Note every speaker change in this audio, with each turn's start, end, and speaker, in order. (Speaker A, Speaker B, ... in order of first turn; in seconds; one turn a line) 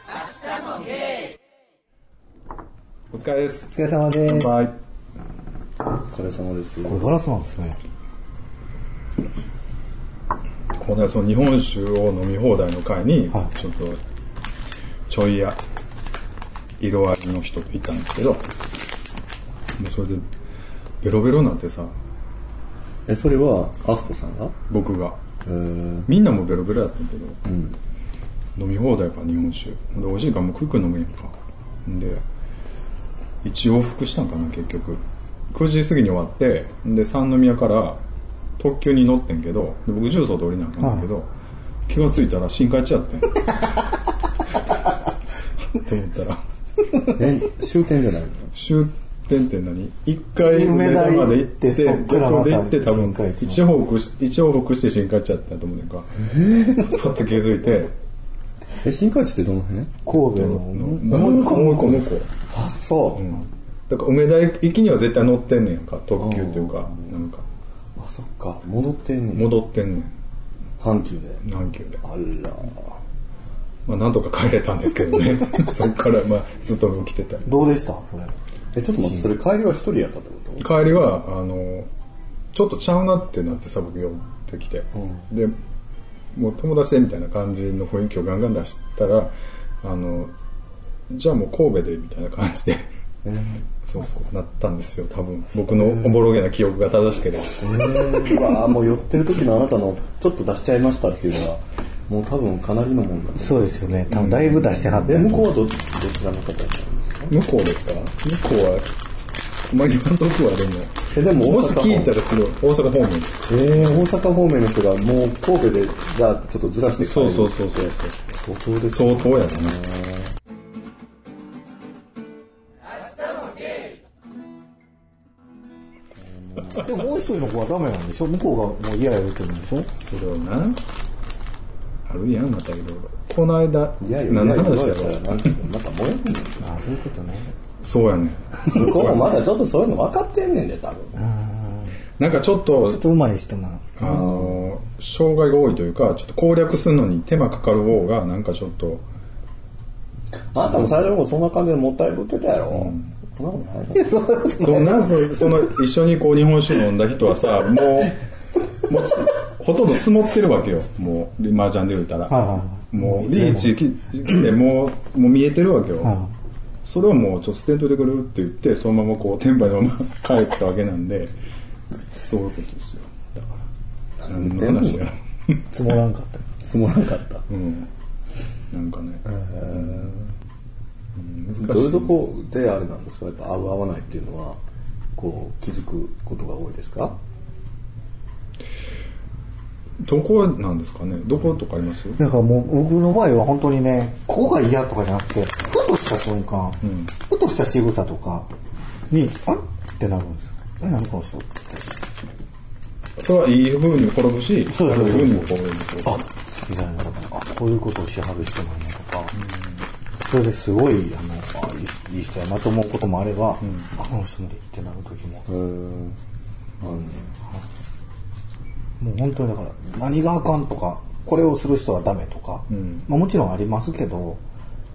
Speaker A: 3.1-3.7
Speaker B: 3.7-4.6
Speaker A: 4.2-4.7
Speaker C: 6.0-7.0
Speaker B: 6.8-7.8
Speaker A: 10.8-14.0
Speaker A: 15.1-15.6
Speaker A: 16.8-18.4
Speaker A: 19.8-20.2
Speaker A: 21.0-21.9
Speaker C: 23.1-24.6
Speaker A: 24.7-25.2
Speaker C: 25.4-26.1
Speaker A: 26.1-27.4
Speaker C: 27.4-27.8
Speaker A: 28.6-32.2
Speaker A: 33.4-38.0
Speaker A: 38.6-41.3
Speaker A: 41.9-43.7
Speaker A: 45.7-46.4
Speaker C: 47.1-48.5
Speaker A: 48.5-57.9
Speaker B: 50.4-53.6
Speaker C: 56.1-57.0
Speaker C: 58.8-60.0
Speaker B: 60.0-61.4
Speaker A: 60.1-62.3
Speaker C: 61.0-63.3
Speaker A: 63.1-67.4
Speaker C: 66.2-67.1
Speaker C: 68.0-69.6
Speaker A: 69.3-70.1
Speaker C: 70.8-71.4
Speaker A: 71.4-72.0
Speaker C: 72.0-73.0
Speaker A: 73.8-77.5
Speaker B: 77.4-78.3
Speaker C: 78.7-80.7
Speaker A: 80.6-81.9
Speaker A: 82.5-85.5
Speaker A: 86.3-90.3
Speaker A: 91.1-92.9
Speaker C: 93.2-93.6
Speaker A: 93.8-97.8
Speaker C: 97.6-104.1
Speaker B: 103.4-105.4
Speaker A: 104.1-105.4
Speaker C: 105.1-107.3
Speaker A: 107.3-108.9
Speaker A: 109.7-114.0
Speaker C: 111.1-112.1
Speaker C: 113.5-120.3
Speaker A: 117.0-118.2
Speaker A: 118.9-119.8
Speaker C: 126.2-126.9
Speaker B: 126.7-129.9
Speaker A: 129.9-130.8
Speaker A: 132.1-135.5
Speaker C: 134.0-136.6
Speaker B: 136.6-137.5
Speaker A: 137.8-139.3
Speaker C: 138.6-141.2
Speaker B: 141.2-141.9
Speaker A: 142.2-143.0
Speaker B: 142.8-144.3
Speaker A: 144.0-149.0
Speaker C: 144.0-144.6
Speaker C: 150.5-154.3
Speaker A: 152.7-153.1
Speaker B: 153.9-155.4
Speaker A: 154.6-158.2
Speaker A: 158.8-166.2
Speaker B: 162.3-163.7
Speaker B: 166.0-166.3
Speaker A: 166.8-171.3
Speaker A: 172.1-173.7
Speaker C: 174.2-175.0
Speaker A: 174.2-175.7
Speaker B: 175.7-176.5
Speaker C: 176.6-177.4
Speaker A: 177.5-177.9
Speaker A: 178.7-180.2
Speaker C: 179.3-180.2
Speaker A: 181.1-182.2
Speaker C: 181.5-184.6
Speaker C: 185.2-187.2
Speaker A: 190.0-192.2
Speaker B: 192.2-198.5
Speaker A: 196.8-197.1
Speaker B: 199.1-201.8
Speaker A: 203.2-206.2
Speaker B: 204.7-209.3
Speaker A: 209.4-209.8
Speaker B: 210.2-215.5
Speaker A: 213.6-213.9
Speaker C: 215.5-216.2
Speaker C: 216.8-217.3
Speaker B: 219.0-224.4
Speaker A: 222.7-223.1